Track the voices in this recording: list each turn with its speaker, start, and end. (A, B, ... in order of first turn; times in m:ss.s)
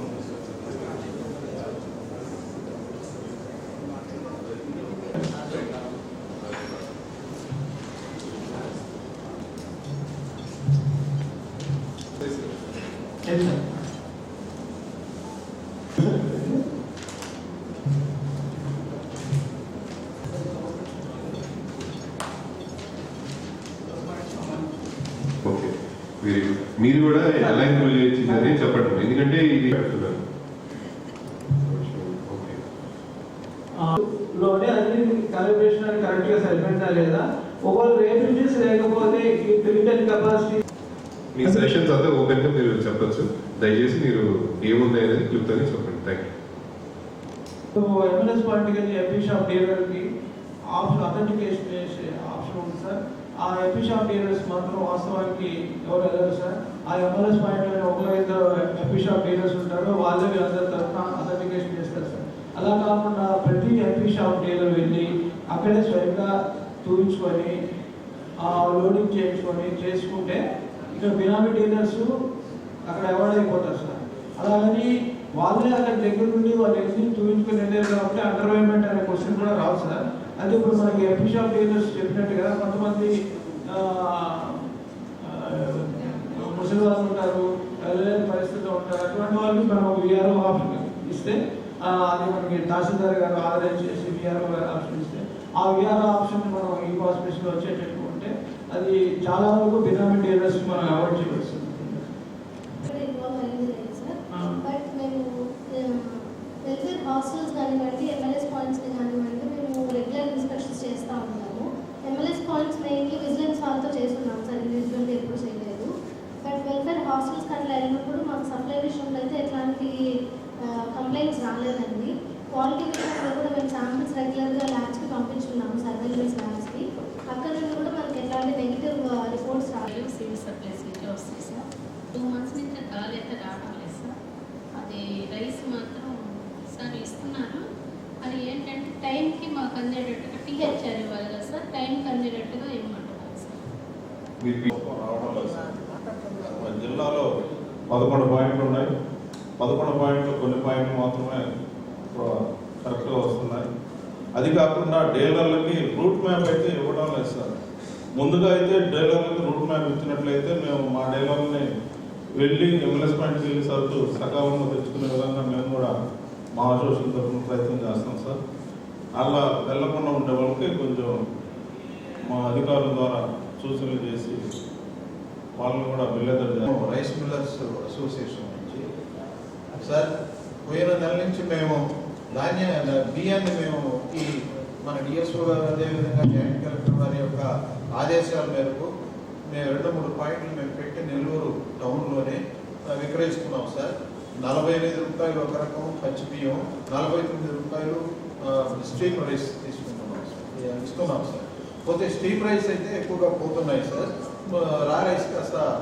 0:13.2-0:13.6 A
0:16.0-0:16.4 A
0:25.4-0:30.2 B
0:31.5-0:32.6 B
0:33.8-0:40.6 A
0:41.3-0:46.3 B
0:47.7-0:50.0 A
0:50.7-1:06.3 A
1:06.8-1:07.6 A
1:08.4-1:10.4 A
1:10.9-1:12.1 A
1:12.9-1:23.2 A
1:23.7-1:24.6 A
1:25.3-1:42.0 A
1:42.8-1:45.3 C
1:45.8-1:55.9 C
1:56.4-2:00.0 C
2:00.9-2:09.9 C
2:09.9-2:14.1 D
2:14.7-2:17.7 D
2:18.2-2:23.6 D
2:24.4-2:24.7 B
2:24.7-2:25.8 E
2:26.4-2:27.2 E
2:27.9-2:28.9 E
2:29.6-2:31.5 E
2:32.1-2:33.7 E
2:34.4-2:37.5 E
2:38.2-2:41.6 E
2:42.4-2:45.9 E
2:46.6-2:48.4 E
2:49.2-2:51.1 E
2:52.3-2:54.4 E
2:55.6-2:56.7 E
2:56.7-2:58.8 F
2:59.8-3:00.1 F
3:00.6-3:01.8 F
3:02.3-3:04.3 F
3:04.8-3:08.9 F
3:09.5-3:25.6 F